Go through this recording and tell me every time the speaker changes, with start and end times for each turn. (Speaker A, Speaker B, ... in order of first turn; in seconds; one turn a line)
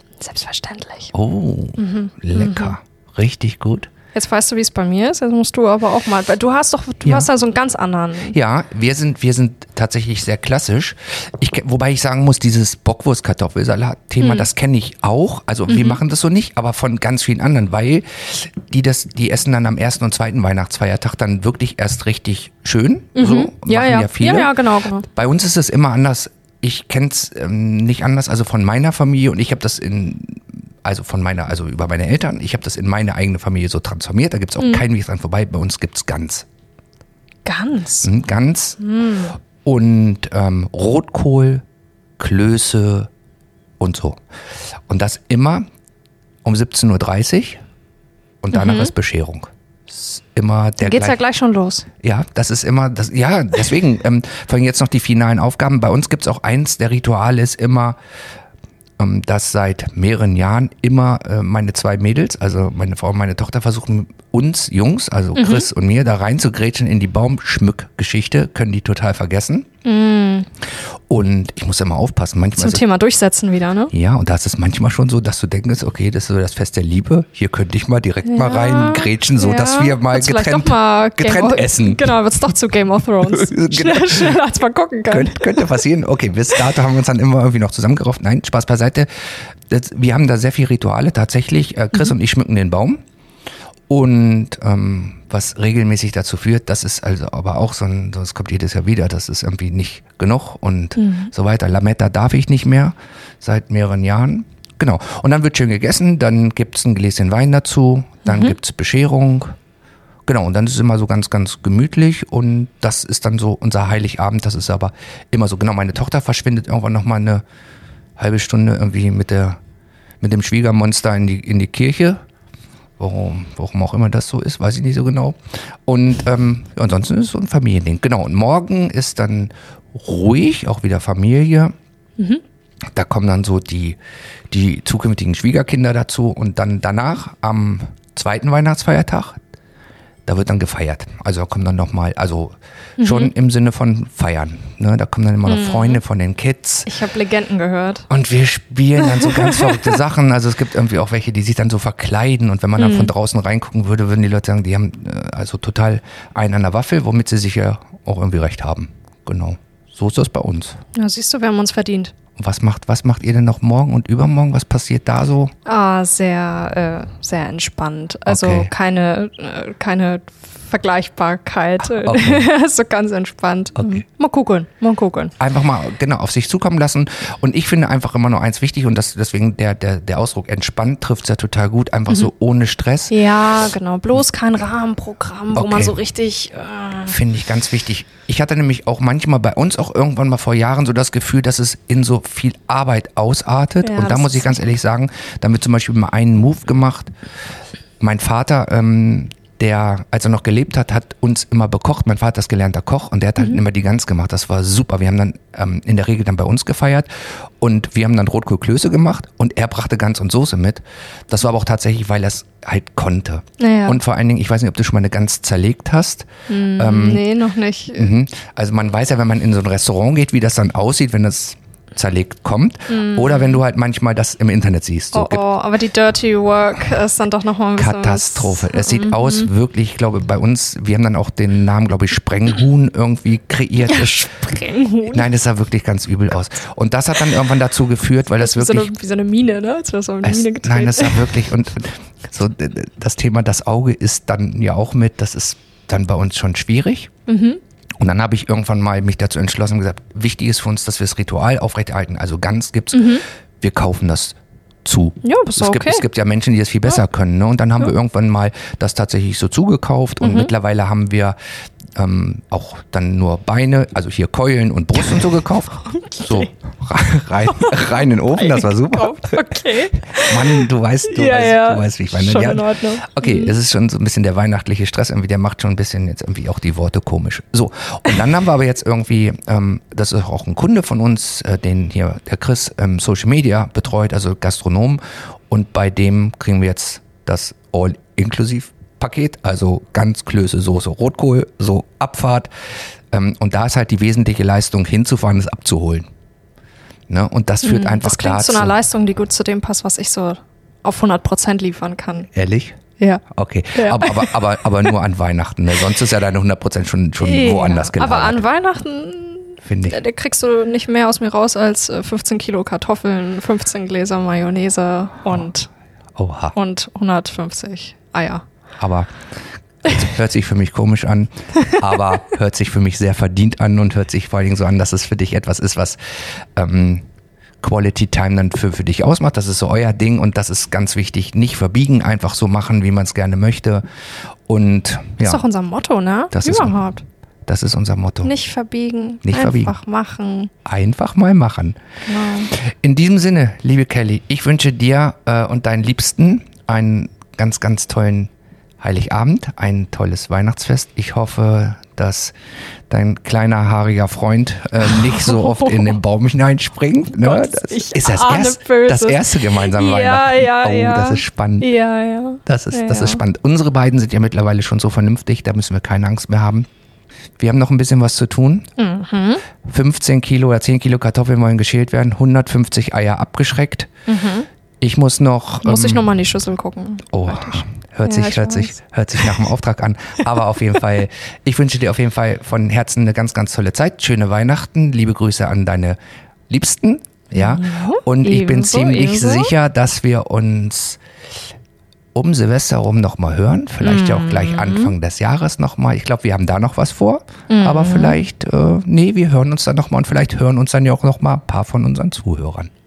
Speaker A: 0.2-1.1
Speaker B: 1.1-3.9
Speaker A: 1.8-2.8
Speaker A: 4.1-8.4
Speaker B: 8.3-36.5
Speaker A: 14.2-14.5
Speaker A: 15.7-16.0
Speaker A: 23.1-25.1
Speaker A: 34.6-34.9
Speaker A: 37.5-38.1
Speaker B: 38.0-38.8
Speaker A: 38.8-39.4
Speaker B: 39.6-41.6
Speaker B: 42.2-43.1
Speaker B: 43.8-44.2
Speaker B: 44.9-45.6
Speaker B: 46.4-47.6
Speaker B: 48.4-51.2
Speaker A: 48.5-48.9
Speaker A: 50.8-51.9
Speaker B: 52.0-58.0
Speaker B: 59.0-69.7
Speaker A: 65.3-65.7
Speaker A: 69.8-70.5
Speaker B: 71.1-72.8
Speaker A: 72.6-73.9
Speaker B: 73.9-82.1
Speaker A: 78.2-85.8
Speaker B: 83.2-84.3
Speaker B: 85.1-89.1
Speaker B: 89.7-93.0
Speaker B: 93.9-109.5
Speaker A: 101.0-101.3
Speaker A: 108.3-108.5
Speaker B: 110.3-117.4
Speaker B: 118.2-119.6
Speaker B: 120.2-122.2
Speaker B: 123.0-131.7
Speaker B: 132.9-134.0
Speaker B: 134.5-139.4
Speaker B: 140.3-146.9
Speaker A: 143.0-143.3
Speaker A: 145.4-146.0
Speaker A: 146.9-148.1
Speaker B: 148.1-160.8
Speaker A: 149.1-149.9
Speaker A: 152.8-153.1
Speaker A: 160.9-162.1
Speaker B: 162.4-165.5
Speaker A: 165.7-175.3
Speaker B: 168.3-168.7
Speaker B: 171.8-172.5
Speaker B: 173.8-174.0
Speaker B: 175.4-183.2
Speaker A: 183.1-187.2
Speaker B: 185.6-186.0
Speaker B: 187.1-197.1
Speaker A: 193.8-194.7
Speaker B: 198.0-207.1
Speaker B: 207.6-217.3
Speaker A: 213.6-214.0
Speaker A: 216.5-218.1
Speaker B: 218.0-225.4
Speaker A: 222.9-223.6
Speaker A: 225.1-229.5
Speaker B: 227.8-234.3
Speaker A: 233.8-235.3
Speaker B: 235.1-238.9
Speaker A: 238.4-241.4
Speaker B: 240.2-247.1
Speaker A: 247.3-247.6
Speaker B: 248.0-261.4
Speaker A: 252.9-253.2
Speaker A: 255.2-256.1
Speaker A: 260.2-260.5
Speaker B: 262.0-269.6
Speaker A: 265.9-266.5
Speaker A: 267.5-267.8
Speaker A: 268.3-273.5
Speaker B: 270.2-292.5
Speaker B: 293.1-296.1
Speaker B: 297.1-298.8
Speaker A: 297.6-302.3
Speaker B: 302.3-302.8
Speaker A: 303.0-304.7
Speaker B: 303.3-308.4
Speaker A: 307.2-315.7
Speaker B: 309.6-310.0
Speaker B: 316.2-316.6
Speaker A: 316.5-318.4
Speaker B: 318.8-319.1
Speaker B: 319.8-326.0
Speaker B: 326.6-327.1
Speaker B: 327.6-333.9
Speaker B: 334.5-335.4
Speaker A: 335.2-337.0
Speaker B: 336.3-336.8
Speaker B: 337.5-338.3
Speaker A: 338.2-340.5
Speaker B: 339.2-339.8
Speaker B: 340.6-341.8
Speaker A: 342.1-342.5
Speaker B: 342.6-348.3
Speaker B: 348.8-352.3
Speaker B: 352.9-361.7
Speaker A: 354.8-356.0
Speaker A: 357.2-363.2
Speaker B: 362.5-366.7
Speaker B: 367.4-368.7
Speaker A: 368.8-369.4
Speaker B: 369.6-373.9
Speaker A: 374.1-374.5
Speaker B: 374.8-376.2
Speaker A: 375.6-379.4
Speaker B: 377.1-386.0
Speaker B: 386.5-391.0
Speaker A: 387.3-389.5
Speaker B: 392.1-402.7
Speaker A: 393.8-394.9
Speaker A: 397.5-398.2